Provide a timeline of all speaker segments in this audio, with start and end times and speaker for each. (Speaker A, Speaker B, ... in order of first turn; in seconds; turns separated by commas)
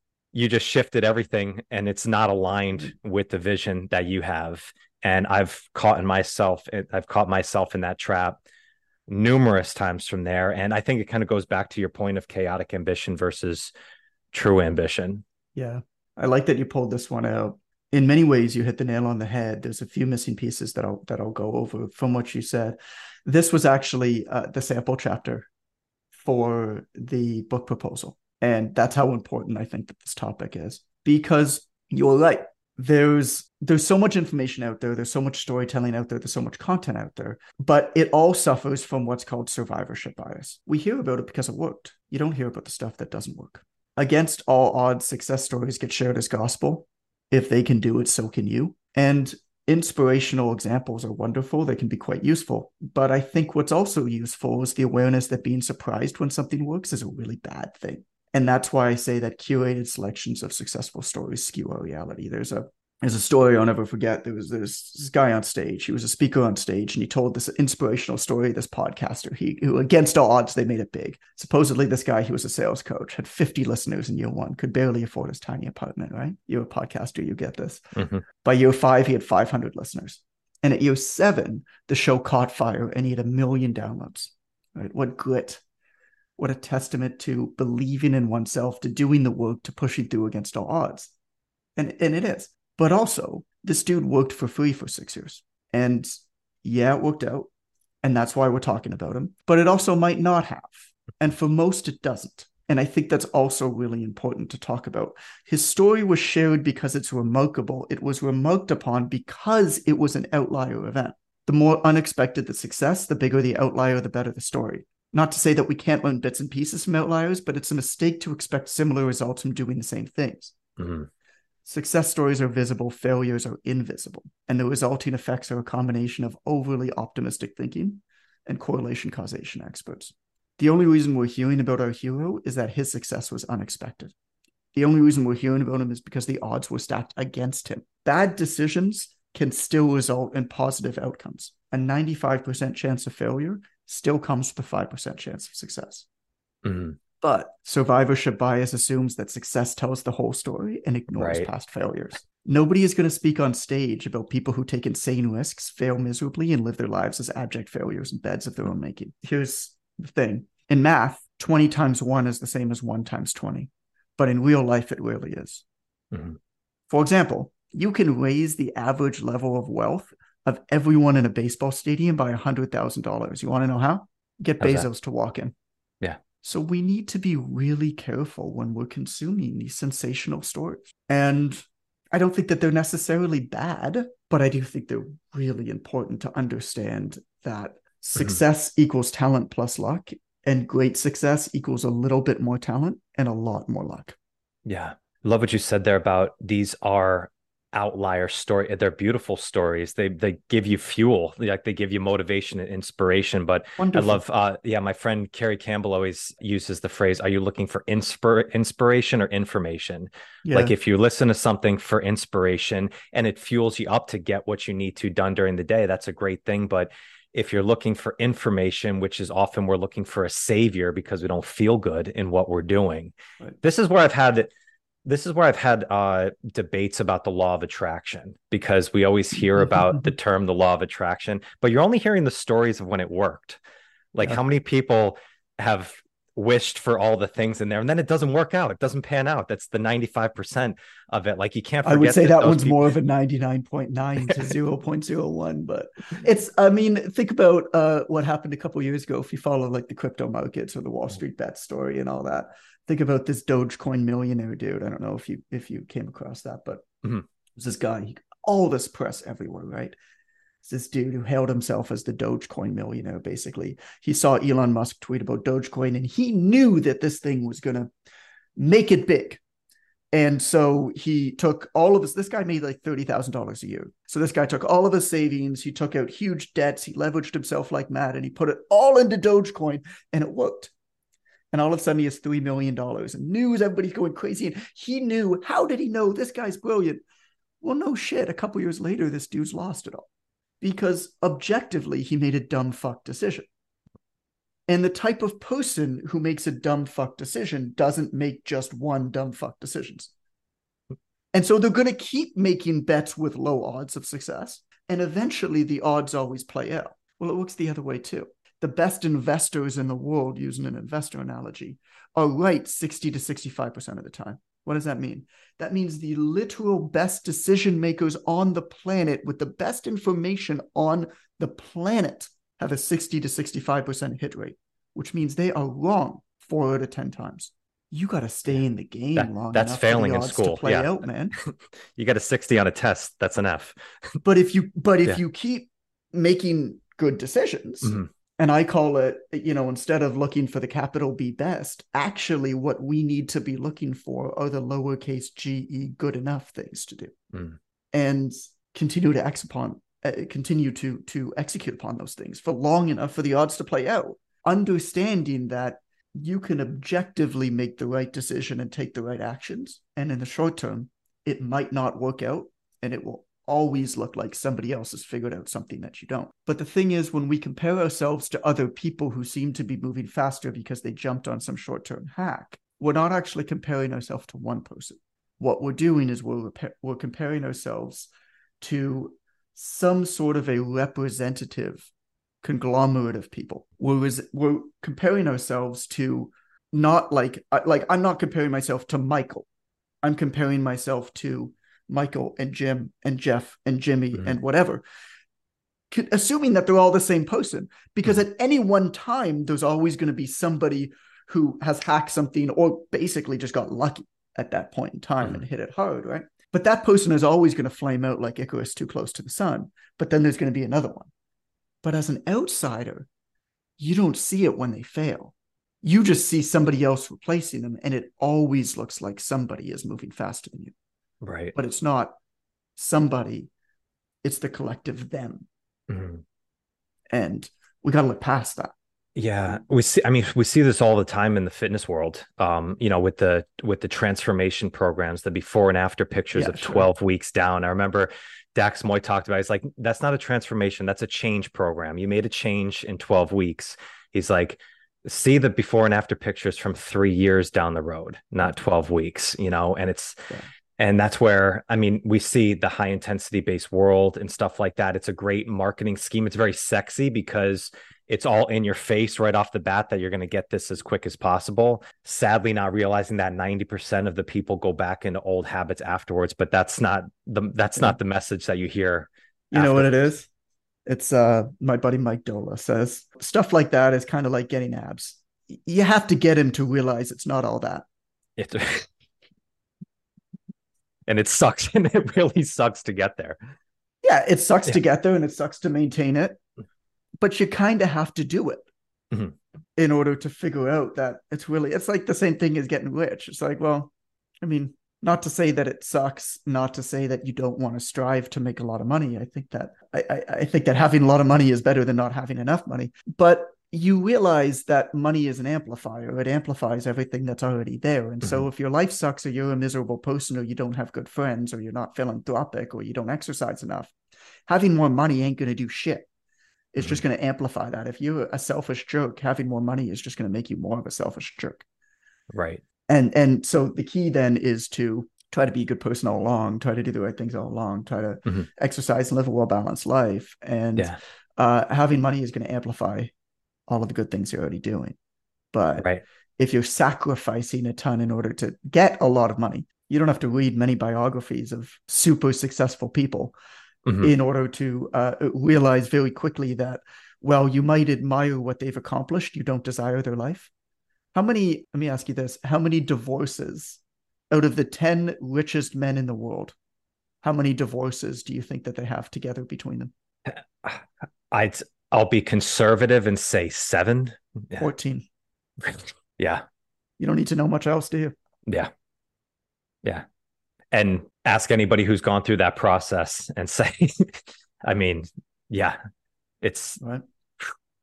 Speaker A: 0.3-8.4, Speaker A: 9.1-13.7, Speaker A: 14.3-15.2, Speaker B: 15.6-25.5, Speaker B: 26.2-85.6, Speaker B: 86.4-91.1, Speaker B: 91.8-97.5, Speaker B: 98.0-120.6, Speaker A: 120.8-121.1, Speaker B: 121.6-134.1, Speaker B: 134.7-146.1, Speaker A: 146.6-147.0, Speaker B: 147.2-165.6, Speaker A: 151.1-151.5, Speaker A: 166.1-166.4, Speaker B: 166.9-175.5, Speaker A: 174.6-174.9, Speaker B: 176.4-194.2, Speaker A: 194.7-224.5, Speaker B: 203.8-204.2, Speaker B: 210.4-210.7, Speaker A: 225.0-233.6, Speaker A: 234.1-242.9, Speaker B: 241.8-256.9, Speaker B: 257.6-259.9, Speaker B: 260.6-267.9, Speaker B: 268.6-269.4, Speaker B: 270.1-280.7, Speaker B: 281.5-287.0, Speaker B: 287.6-290.1, Speaker B: 290.6-293.5, Speaker B: 294.7-300.1, Speaker B: 301.3-331.3, Speaker A: 329.1-333.8, Speaker B: 334.2-347.1, Speaker B: 347.9-378.1, Speaker B: 378.6-381.9, Speaker B: 382.4-389.4, Speaker B: 390.0-394.8, Speaker B: 395.9-411.1, Speaker B: 411.8-413.1, Speaker B: 413.8-420.7, Speaker A: 421.2-421.5, Speaker B: 421.5-422.1, Speaker B: 422.8-423.5, Speaker B: 424.2-425.5, Speaker A: 425.9-426.2, Speaker B: 427.1-428.7, Speaker A: 429.1-450.2, Speaker B: 436.3-436.9, Speaker A: 450.8-469.9, Speaker B: 469.5-470.3, Speaker B: 470.9-477.9, Speaker A: 478.4-478.9, Speaker A: 481.1-483.4, Speaker B: 484.0-486.4, Speaker B: 487.2-488.7, Speaker B: 489.8-513.9, Speaker B: 514.5-516.1, Speaker B: 516.7-521.6, Speaker A: 522.3-522.6, Speaker B: 522.9-533.1, Speaker B: 533.7-535.0, Speaker B: 535.5-543.4, Speaker A: 543.9-544.1, Speaker B: 544.0-550.5, Speaker B: 551.1-553.8, Speaker B: 554.3-556.5, Speaker B: 557.2-559.9, Speaker A: 560.3-564.7, Speaker B: 564.6-565.1, Speaker A: 565.6-566.4, Speaker B: 567.0-568.1, Speaker A: 570.7-575.8, Speaker A: 576.4-576.8, Speaker B: 576.8-577.0